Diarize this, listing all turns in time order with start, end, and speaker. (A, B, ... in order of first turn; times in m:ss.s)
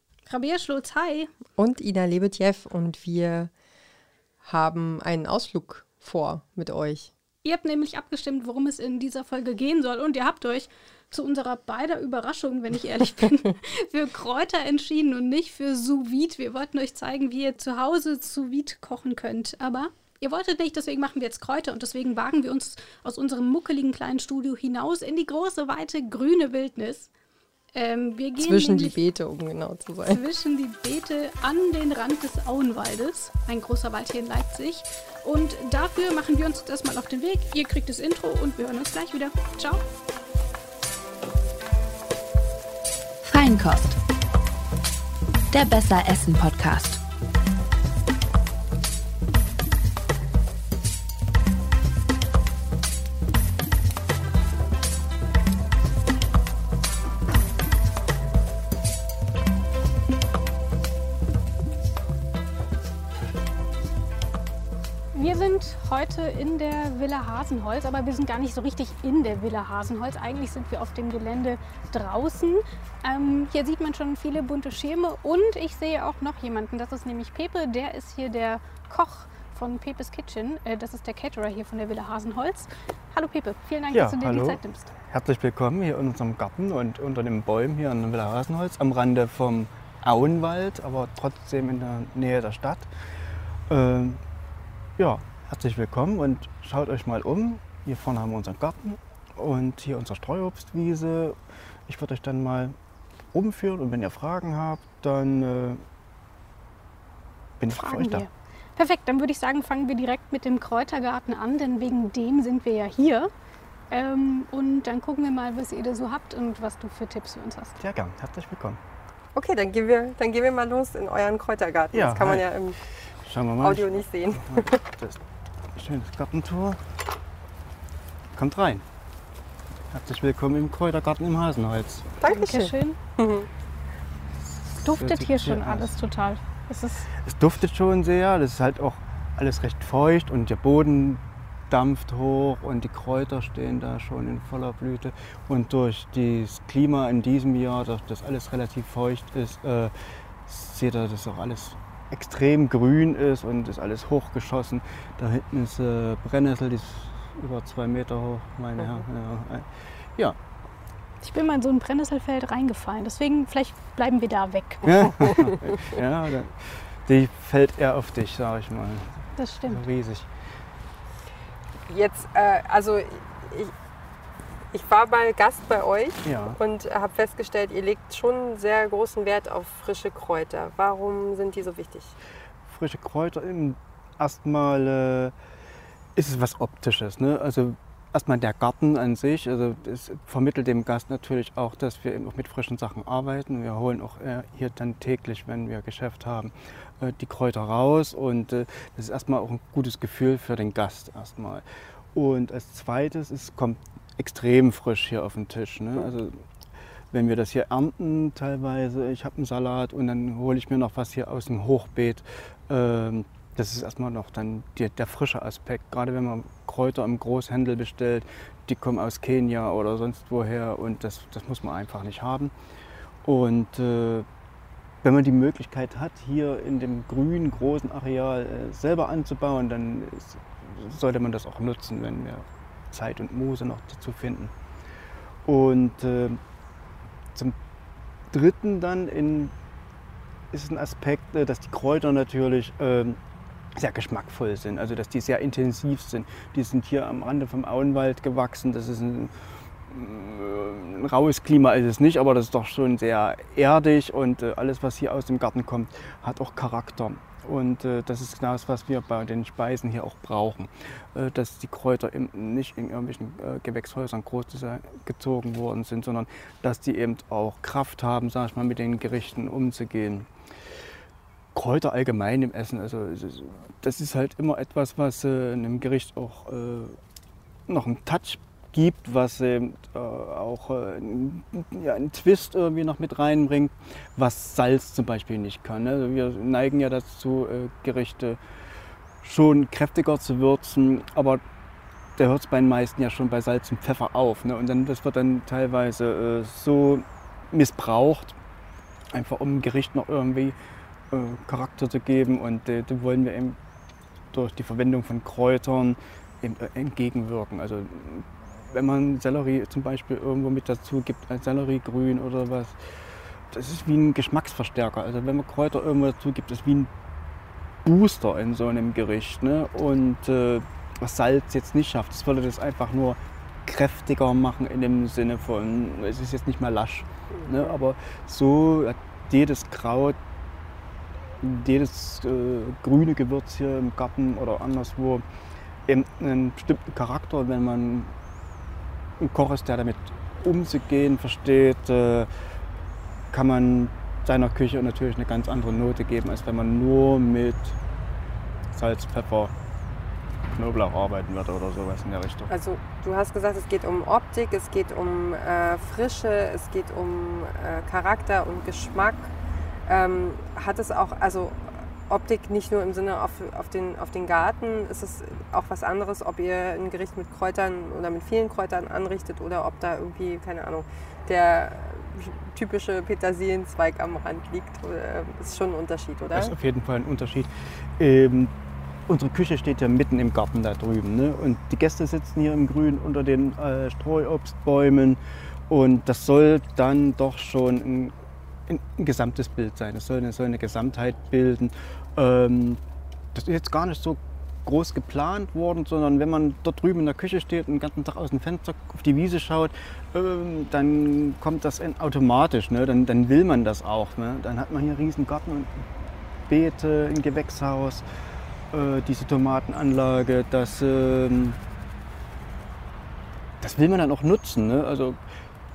0:00.2-0:01.3 A
0:01.6-0:03.5 B
0:04.4-0:07.1 B
0:07.4-0:27.1 A
0:27.8-0:29.0 A
0:28.4-0:30.2 B
0:30.1-0:39.8 A
0:43.2-0:44.0 C
0:45.5-0:47.0 C
1:05.1-1:24.9 A
1:23.9-1:32.9 D
1:33.7-1:34.2 D
1:35.0-1:42.7 D
1:43.3-1:45.8 D
1:47.6-1:48.2 D
1:47.7-1:53.3 A
1:53.9-1:57.8 A
1:57.8-1:58.8 D
1:59.3-2:02.8 B
2:01.9-2:05.2 D
2:03.6-2:04.8 B
2:05.7-2:06.8 D
2:08.3-2:08.8 D
2:09.9-2:12.2 D
2:12.2-2:13.5 B
2:12.2-2:13.0 A
2:14.8-2:15.9 D
2:14.8-2:17.1 A
2:17.1-2:40.4 D
2:41.2-2:45.3 A
2:44.8-2:50.3 D
2:49.4-2:49.8 A
2:51.9-2:53.7 B
2:54.7-3:02.1 B
2:56.2-2:56.6 D
3:02.7-3:05.3 D
3:06.1-3:26.4 D
3:27.1-3:42.5 D
3:43.2-3:44.2 D
3:45.0-3:54.5 D
3:55.4-3:56.4 D
3:58.3-3:59.5 D
4:00.5-4:03.2 D
4:03.8-4:30.3 D
4:31.5-4:37.0 D
4:37.7-4:48.4 D
4:49.2-4:51.4 D
4:52.2-4:58.4 D
4:59.1-5:00.6 D
5:01.1-5:03.6 D
5:04.3-5:16.9 D
5:17.8-5:30.2 D
5:31.4-5:35.2 D
5:35.9-5:38.1 D
5:39.2-5:42.3 D
5:43.3-5:47.8 D
5:48.7-5:49.5 D
5:50.5-5:52.5 D
5:52.5-5:59.3 B
5:59.9-6:16.5 B
6:16.3-6:18.5 D
6:19.1-6:28.2 D
6:28.7-6:32.8 D
6:33.3-6:45.9 D
6:46.5-6:48.0 D
6:48.7-6:51.6 D
6:53.6-6:55.2 D